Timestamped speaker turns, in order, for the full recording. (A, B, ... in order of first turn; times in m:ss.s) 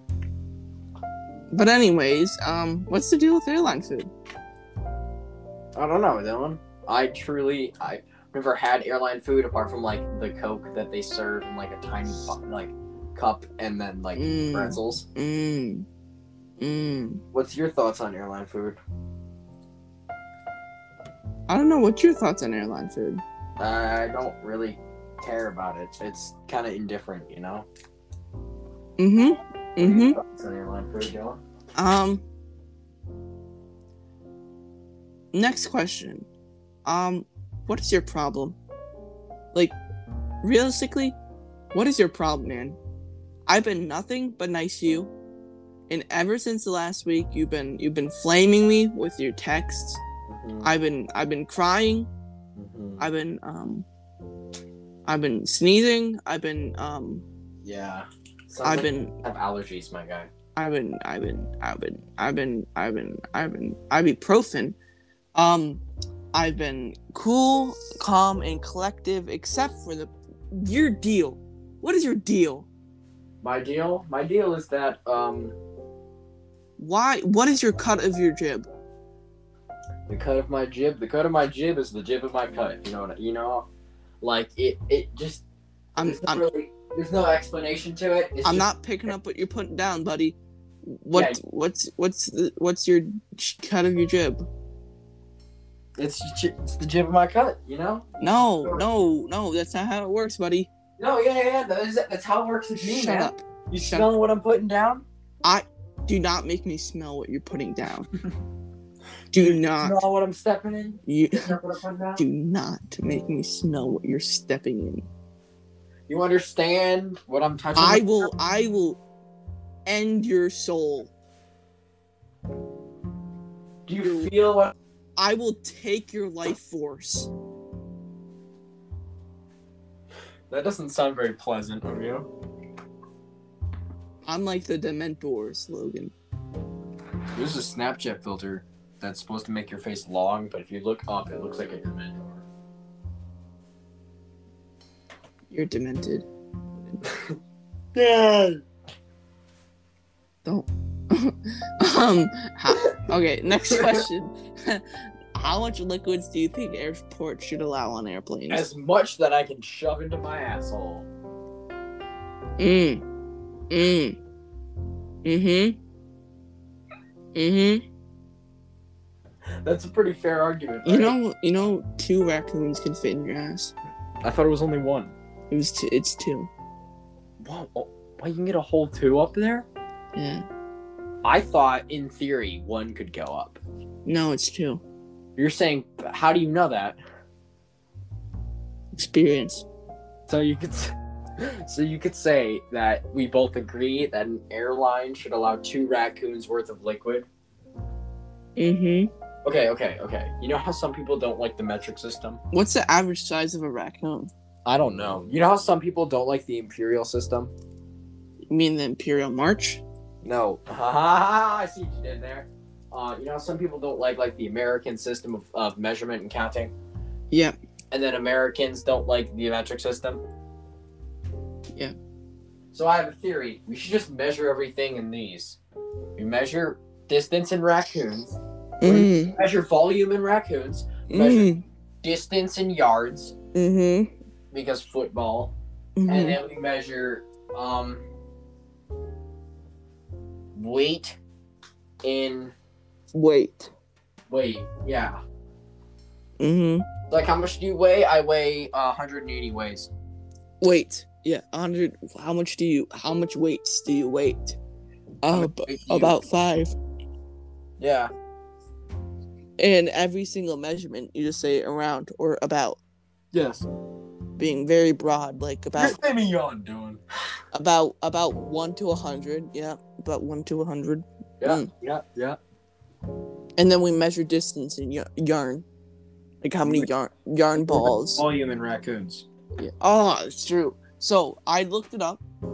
0:01.5-0:04.1 A
0:05.8-0:15.0 B
0:14.2-0:15.8 A
0:16.6-0:17.2 A
0:17.3-0:18.8 B
0:21.5-0:23.2 A
0:23.6-0:27.7 B
0:29.0-0:30.2 A
0:29.8-0:31.4 B
0:31.7-0:32.2 A
0:35.3-0:36.2 A
0:36.8-0:38.6 A
0:40.4-0:41.2 A
0:41.7-0:42.8 A
0:43.5-0:45.1 A
0:45.9-0:50.0 A
0:50.3-0:50.7 B
0:50.6-0:52.1 A
0:52.6-0:53.0 B
0:53.0-0:53.8 A
0:55.0-0:57.2 A
0:57.6-1:00.3 B
0:58.6-0:59.1 A
1:00.6-1:04.8 A
1:05.3-1:12.7 A
1:13.4-1:15.6 B
1:16.8-1:18.7 A
1:20.1-1:23.7 B
1:24.2-1:25.4 B
1:26.0-1:26.4 A
1:26.0-1:28.7 B
1:28.4-1:34.5 A
1:31.1-1:31.4 B
1:36.0-1:38.8 B
1:38.2-1:40.7 A
1:41.0-1:45.0 B
1:42.8-1:44.0 A
1:45.4-1:48.1 A
1:49.3-1:50.0 A
1:49.3-1:52.2 B
1:51.0-1:51.5 A
1:52.2-1:55.1 A
1:56.1-1:58.3 B
1:57.8-1:59.0 A
1:59.8-2:01.1 A
2:03.9-2:04.7 B
2:04.0-2:04.3 A
2:05.2-2:07.3 A
2:10.5-2:12.3 B
2:14.2-2:16.1 A
2:17.3-2:22.4 B
2:25.5-2:27.0 A
2:27.0-2:27.3 B
2:27.9-2:28.6 B
2:30.4-2:38.7 A
2:38.5-2:41.1 B
2:42.6-2:43.0 A
2:43.7-2:44.2 A
2:45.2-2:45.8 A
2:47.3-2:47.8 A
2:49.6-2:51.1 B
2:50.8-2:53.7 A
2:54.2-2:55.1 B
2:55.5-2:56.5 A
2:57.4-2:59.7 B
3:00.1-3:00.4 A
3:01.2-3:03.6 B
3:04.0-3:04.8 A
3:05.4-3:07.0 B
3:08.9-3:09.6 A
3:10.3-3:17.3 B
3:18.6-3:19.1 A
3:19.4-3:22.4 B
3:22.5-3:24.3 A
3:24.6-3:27.5 B
3:28.5-3:29.8 A
3:30.2-3:36.7 B
3:37.9-3:40.2 B
3:42.7-3:45.6 B
3:46.2-3:51.5 B
3:48.8-3:49.3 A
3:51.1-3:51.6 A
3:52.0-3:53.3 B
3:53.5-3:54.1 A
3:54.5-3:55.5 B
3:56.0-3:56.4 A
3:56.1-3:58.0 B
4:00.5-4:01.2 B
4:02.0-4:02.5 B
4:03.1-4:03.7 A
4:04.3-4:05.2 B
4:06.4-4:06.9 A
4:07.1-4:09.9 B
4:10.6-4:14.6 A
4:15.2-4:16.7 A
4:15.3-4:16.2 B
4:17.8-4:18.1 B
4:19.6-4:22.8 A
4:23.3-4:23.7 B
4:24.4-4:26.0 A
4:25.8-4:27.0 B
4:27.5-4:31.7 A
4:31.4-4:32.4 B
4:33.6-4:35.6 A
4:36.4-4:38.2 A
4:36.6-4:36.9 B
4:37.6-4:39.2 B
4:39.6-4:42.2 A